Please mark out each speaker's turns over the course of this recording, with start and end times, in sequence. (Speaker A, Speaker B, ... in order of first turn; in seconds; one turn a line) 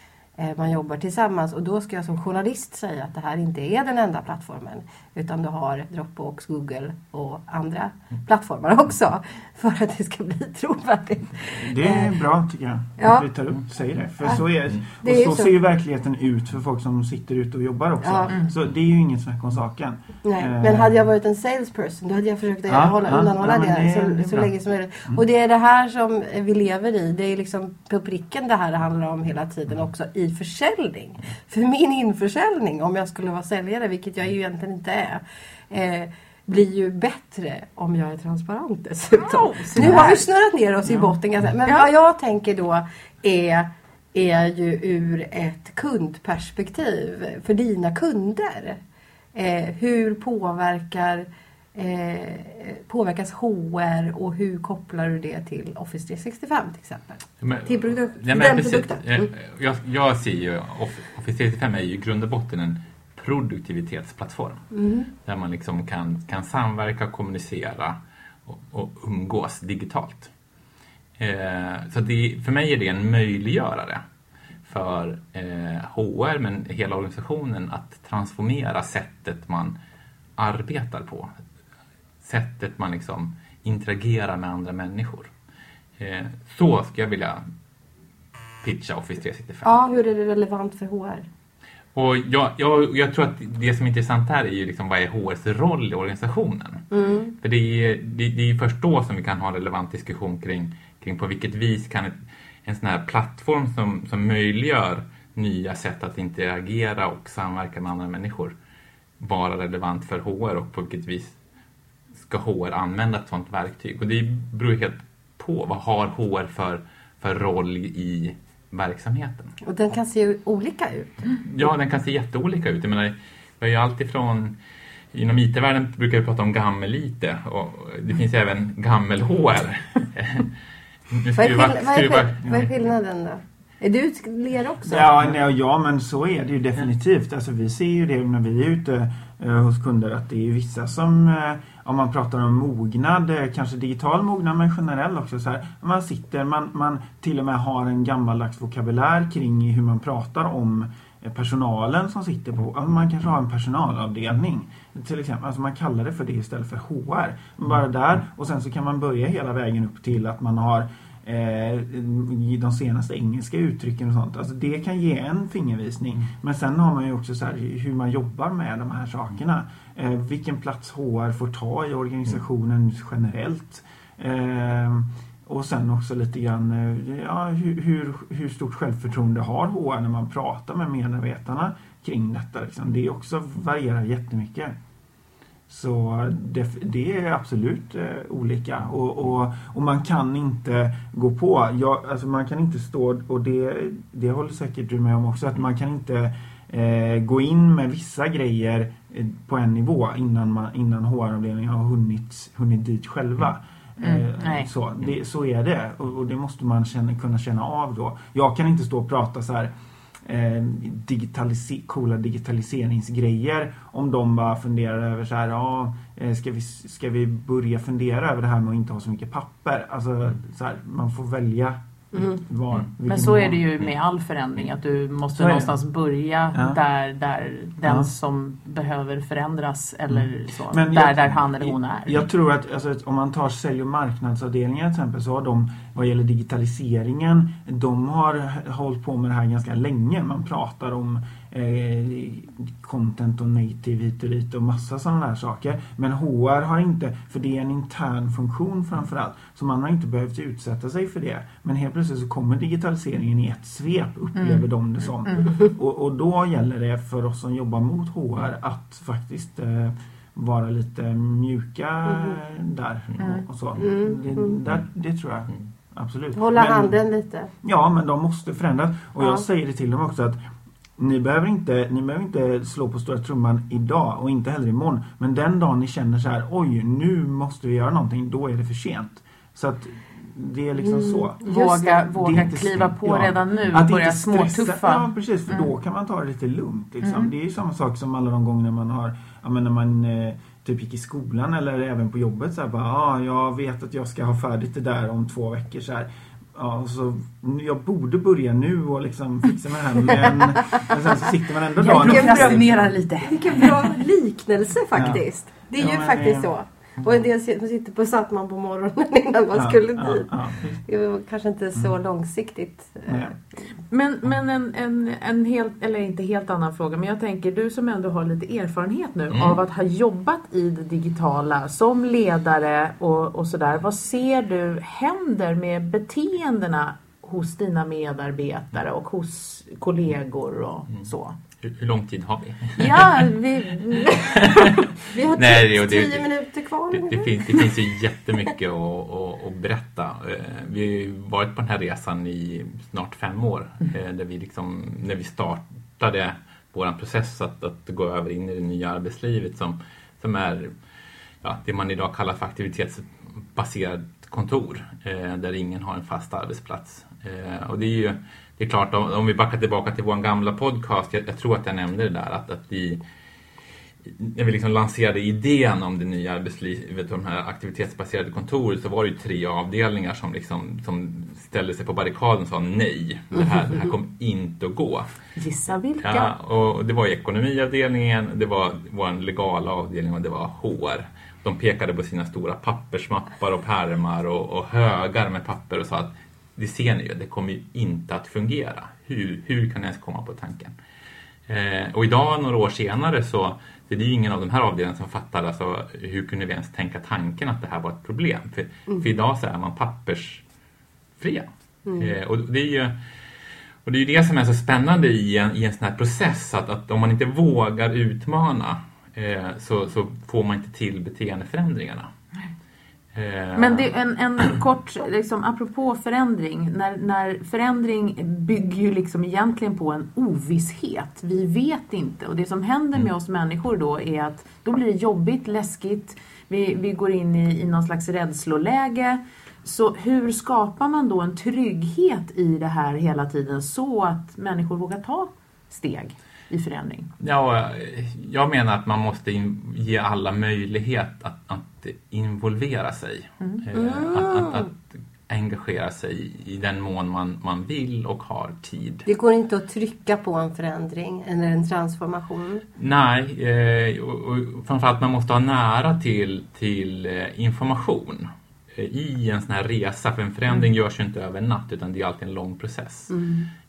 Speaker A: 0.4-12.1
Speaker B: 11.5-21.0
Speaker A: 13.0-13.3
Speaker A: 15.0-15.5
Speaker A: 18.0-18.3
Speaker C: 18.3-18.5
Speaker A: 20.2-48.8
Speaker B: 22.7-24.5
Speaker C: 39.2-40.2
Speaker B: 39.8-40.0
Speaker C: 40.9-41.1
Speaker A: 49.3-59.3
Speaker D: 57.4-64.7
Speaker A: 64.7-65.1
Speaker D: 65.2-70.3
Speaker D: 71.2-74.0
Speaker D: 74.7-79.8
Speaker D: 80.4-81.4
Speaker D: 82.2-85.3
Speaker D: 86.0-87.4
Speaker D: 88.6-89.8
Speaker A: 89.6-91.3
Speaker D: 92.0-96.9
Speaker A: 96.9-97.3
Speaker D: 97.4-108.5
Speaker D: 109.2-111.3
Speaker D: 112.2-119.6
Speaker A: 119.7-121.7
Speaker D: 121.4-124.6
Speaker D: 125.1-130.5
Speaker D: 131.1-132.7
Speaker A: 131.3-135.2
Speaker B: 134.8-184.7
Speaker B: 185.7-209.7
Speaker C: 204.0-204.7
Speaker B: 210.2-223.6
Speaker A: 222.1-222.4
Speaker C: 223.1-232.2
Speaker B: 225.4-225.7
Speaker B: 226.5-226.8
Speaker B: 227.8-228.1
Speaker B: 230.1-266.9
Speaker C: 254.3-254.7
Speaker C: 255.3-255.6
Speaker A: 262.1-262.4
Speaker C: 263.2-263.5
Speaker A: 263.8-264.6
Speaker A: 266.4-267.5
Speaker B: 267.6-270.4
Speaker B: 271.0-281.4
Speaker A: 280.8-282.1
Speaker C: 281.4-285.7
Speaker B: 282.1-302.9
Speaker C: 287.0-287.3
Speaker C: 301.8-303.9
Speaker A: 301.9-313.4
Speaker B: 304.9-305.2
Speaker B: 305.8-306.5
Speaker B: 309.5-310.8
Speaker B: 313.1-313.3
Speaker C: 313.9-331.4
Speaker D: 319.3-319.6
Speaker D: 331.6-333.1
Speaker C: 332.8-334.2
Speaker A: 333.9-337.8
Speaker D: 334.1-336.3
Speaker D: 336.9-350.8
Speaker D: 351.4-363.0
Speaker D: 364.0-375.1
Speaker C: 375.4-376.3
Speaker D: 376.0-390.8
Speaker D: 391.5-400.4
Speaker D: 401.2-403.0
Speaker A: 401.9-402.1
Speaker D: 403.9-412.1
Speaker D: 413.1-413.9
Speaker C: 413.6-437.1
Speaker D: 437.2-449.1
Speaker A: 443.7-444.6
Speaker A: 449.1-452.6
Speaker D: 452.8-463.2
Speaker A: 463.1-463.5